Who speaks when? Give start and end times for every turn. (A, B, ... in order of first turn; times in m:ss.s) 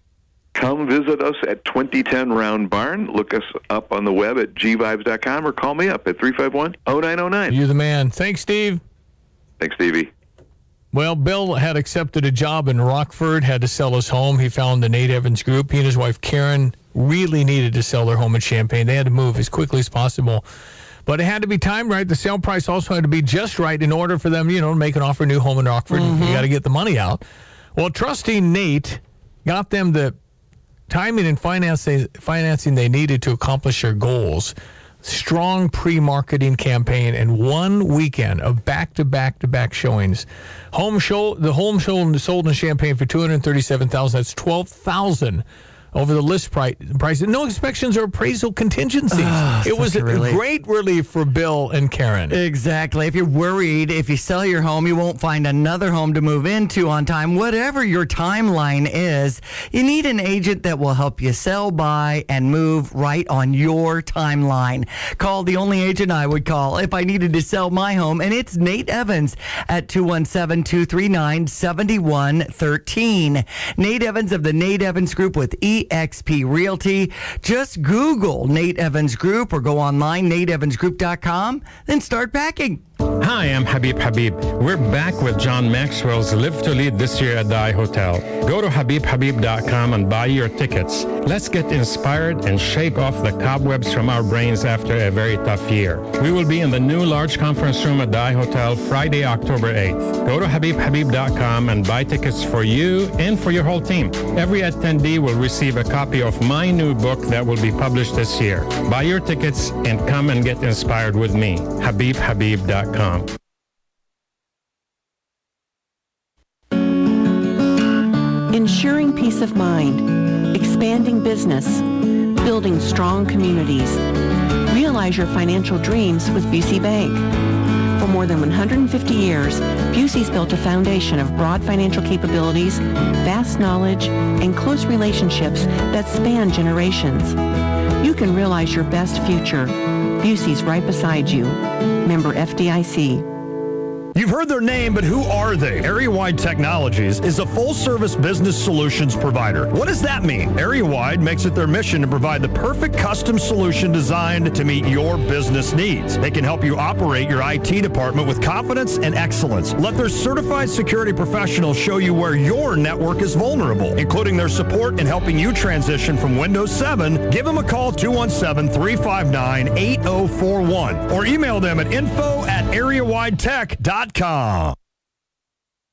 0:00.6-0:07.6 A
0:07.5-0:08.8 B
0:09.6-0:10.1 A
0:10.9-0:20.4 B
0:21.1-0:27.2 B
0:25.9-0:26.4 C
0:27.8-0:30.1 B
0:30.9-0:52.4 B
0:49.1-0:50.4 C
0:52.3-1:22.8 C
1:23.2-1:53.3 D
1:58.5-2:04.0 E
2:04.7-2:07.3 E
2:08.0-2:17.4 E
2:18.0-2:23.3 E
2:24.1-2:54.8 F